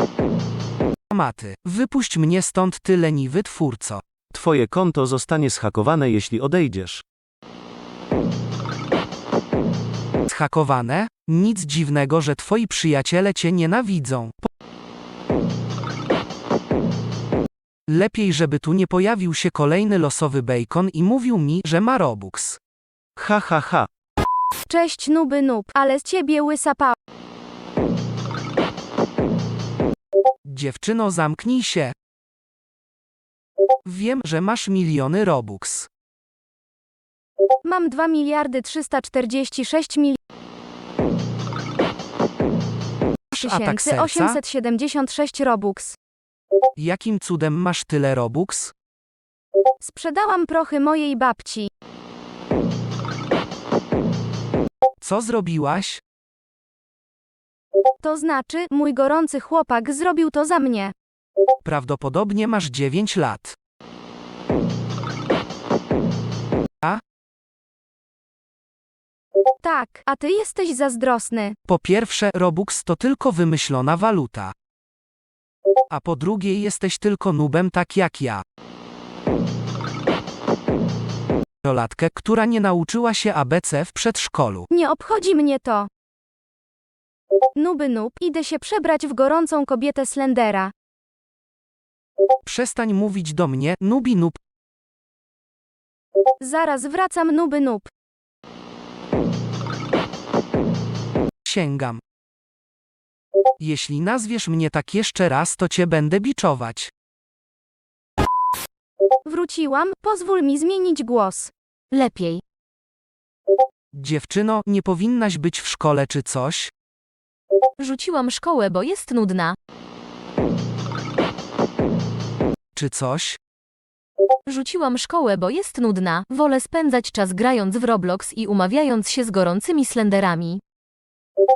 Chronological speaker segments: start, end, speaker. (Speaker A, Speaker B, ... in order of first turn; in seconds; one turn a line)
Speaker A: 1.1-4.0
Speaker B: 4.3-7.0
Speaker A: 10.3-14.4
Speaker A: 17.9-22.6
Speaker B: 23.2-23.9
Speaker C: 24.7-26.9
Speaker A: 30.4-31.9
Speaker A: 33.8-35.9
Speaker C: 37.6-40.2
Speaker A: 43.3-44.4
Speaker C: 43.4-46.0
Speaker A: 46.8-48.7
Speaker C: 49.8-51.7
Speaker A: 55.0-56.0
Speaker C: 58.0-60.9
Speaker A: 61.6-63.5
Speaker C: 69.6-71.5
Speaker A: 71.7-74.5
Speaker A: 75.9-78.4
Speaker A: 81.6-84.7
Speaker C: 84.7-85.9
Speaker C: 87.5-90.7
Speaker A: 92.4-94.4
Speaker C: 96.4-97.9
Speaker A: 101.4-102.0
Speaker A: 103.6-106.9
Speaker C: 109.3-111.5
Speaker D: 111.9-112.4
Speaker A: 113.9-116.7
Speaker D: 117.8-119.5
Speaker A: 122.7-123.4
Speaker D: 124.5-130.6